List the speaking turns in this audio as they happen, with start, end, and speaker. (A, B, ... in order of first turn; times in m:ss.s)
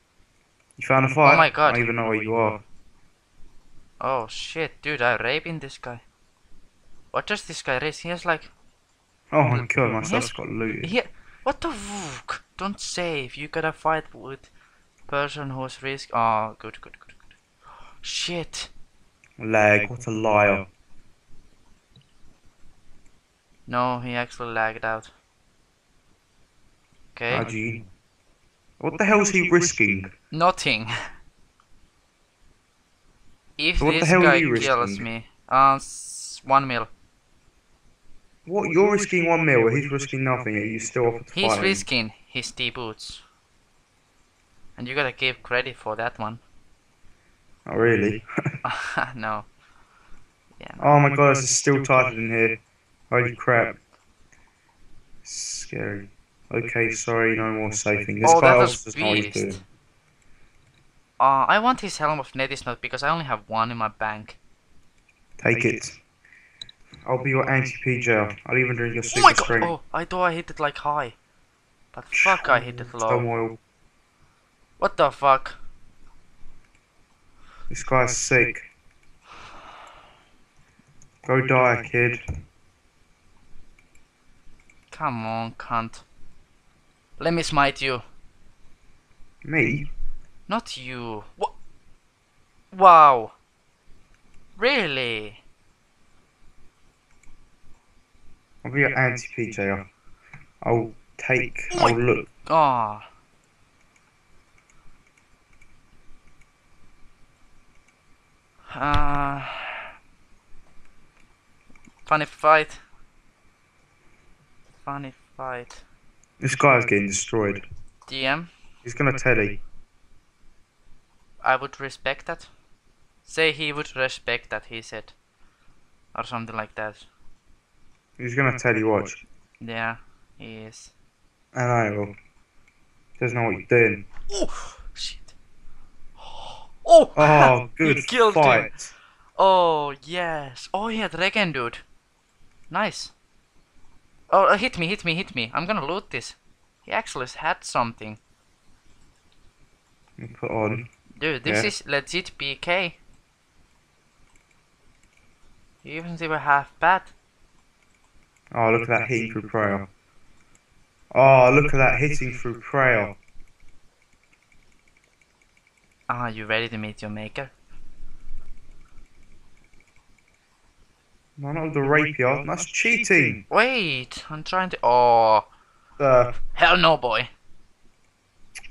0:00.8-0:02.6 A
0:01.3-0:01.8 B
0:04.0-0:06.0 B
0:07.1-0:08.5 B
0:09.3-0:10.9 A
0:10.0-0:14.5 B
0:15.1-0:17.2 B
0:18.0-0:18.7 B
0:19.4-0:20.7 A
0:23.7-0:25.1 B
0:27.2-0:27.5 B
0:27.3-0:27.9 A
0:28.8-0:30.1 A
0:30.3-0:30.9 B
0:33.6-0:36.9 B
0:33.8-0:35.1 A
0:38.5-0:41.8 A
0:41.3-0:43.2 B
0:44.8-0:46.4 B
0:47.7-0:48.6 A
0:48.6-0:49.5 B
0:50.6-0:50.9 B
0:50.8-0:52.6 A
0:53.1-0:53.8 A
0:55.2-0:59.6 A
0:58.2-0:59.6 B
1:01.2-1:04.4 B
1:05.4-1:06.0 A
1:07.0-1:09.8 A
1:09.1-1:11.2 B
1:11.9-1:13.3 B
1:12.1-1:13.6 A
1:14.8-1:15.6 B
1:17.7-1:18.7 A
1:21.2-1:22.2 A
1:24.9-1:26.0 B
1:27.2-1:28.0 B
1:29.4-1:29.9 A
1:30.5-1:31.5 B
1:32.7-1:33.4 B
1:34.6-1:35.4 B
1:38.6-1:39.9 A
1:40.6-1:42.3 A
1:41.7-1:43.1 B
1:48.7-1:49.8 B
1:52.1-1:52.8 B
1:54.8-1:55.8 B
1:56.4-1:57.6 A
1:58.1-1:58.5 B
1:58.8-1:59.6 A
2:01.4-2:02.5 B
2:03.3-2:05.2 B
2:06.1-2:07.1 B
2:08.2-2:09.2 A
2:09.6-2:10.9 B
2:11.5-2:12.2 A
2:13.2-2:14.1 A
2:14.3-2:15.4 B
2:16.2-2:18.7 B
2:17.2-2:18.9 A
2:19.4-2:21.8 B
2:22.7-2:23.1 B
2:24.3-2:28.2 B
2:30.2-2:30.9 A
2:31.2-2:33.0 B
2:31.4-2:31.7 A
2:35.8-2:37.1 B
2:38.5-2:39.9 A
2:41.1-2:43.2 A
2:46.1-2:47.5 B
2:51.4-2:53.4 A
2:53.5-2:55.5 B
2:56.0-2:56.4 A
2:56.5-2:57.3 B